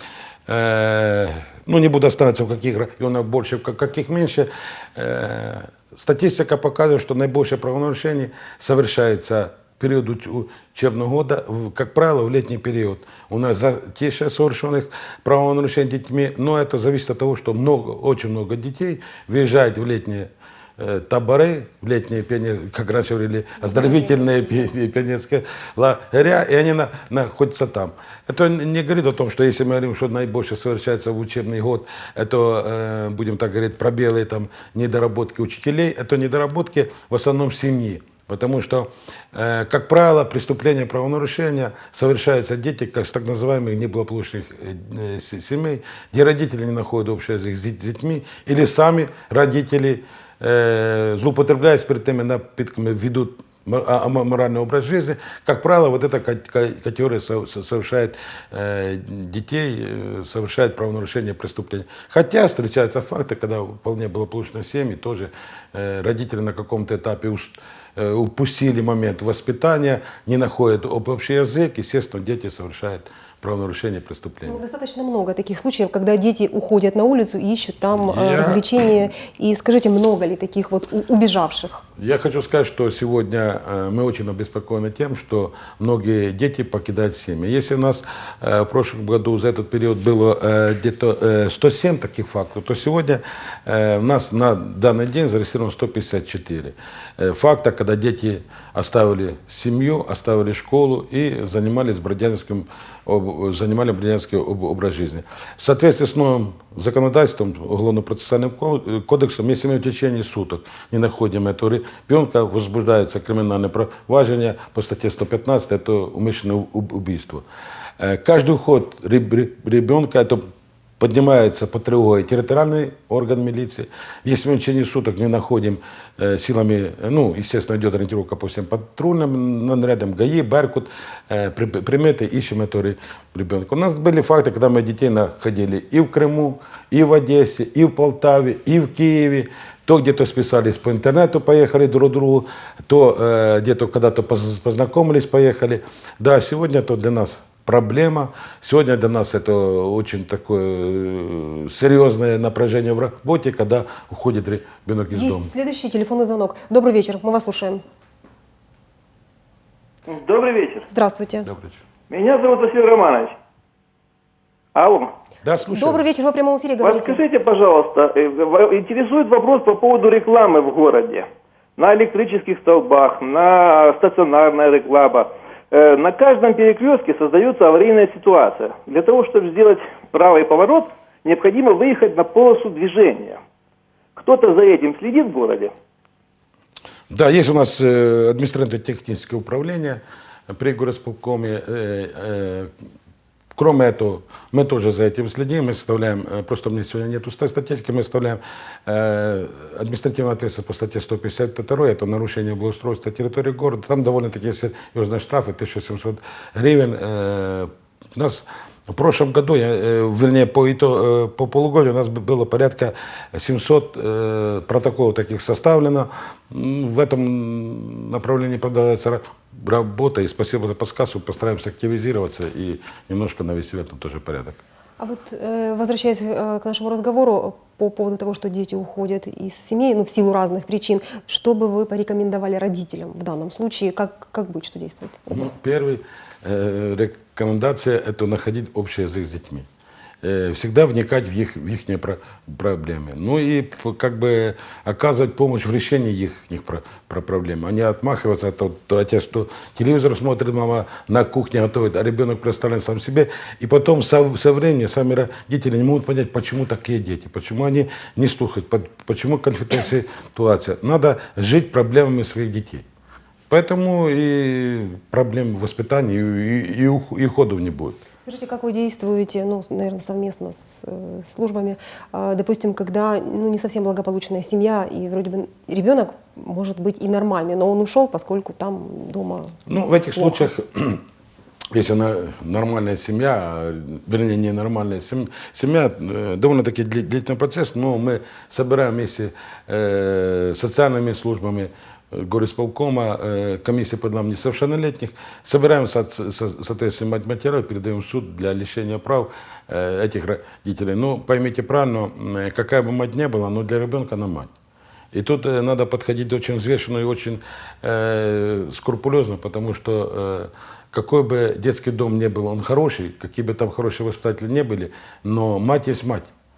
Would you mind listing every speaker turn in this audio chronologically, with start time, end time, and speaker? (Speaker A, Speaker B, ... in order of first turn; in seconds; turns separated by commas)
Speaker A: 0.5-74.6, Speaker B: 23.6-24.6, Speaker B: 74.5-81.8, Speaker A: 77.9-78.8, Speaker A: 82.0-117.5, Speaker A: 118.0-120.5, Speaker A: 121.0-155.5, Speaker B: 155.1-157.8, Speaker C: 160.1-160.9, Speaker B: 160.9-161.5, Speaker A: 161.4-161.8, Speaker C: 162.1-163.4, Speaker C: 164.8-165.1, Speaker A: 165.4-166.0, Speaker B: 165.7-167.2, Speaker C: 166.8-183.4, Speaker C: 184.2-185.7, Speaker A: 187.1-192.7, Speaker A: 193.6-224.6, Speaker B: 225.0-235.5, Speaker A: 235.3-239.7, Speaker A: 240.2-262.9, Speaker A: 263.5-268.0, Speaker B: 268.3-279.6, Speaker A: 279.7-281.0, Speaker B: 280.2-280.5, Speaker A: 281.7-304.5, Speaker A: 305.1-316.3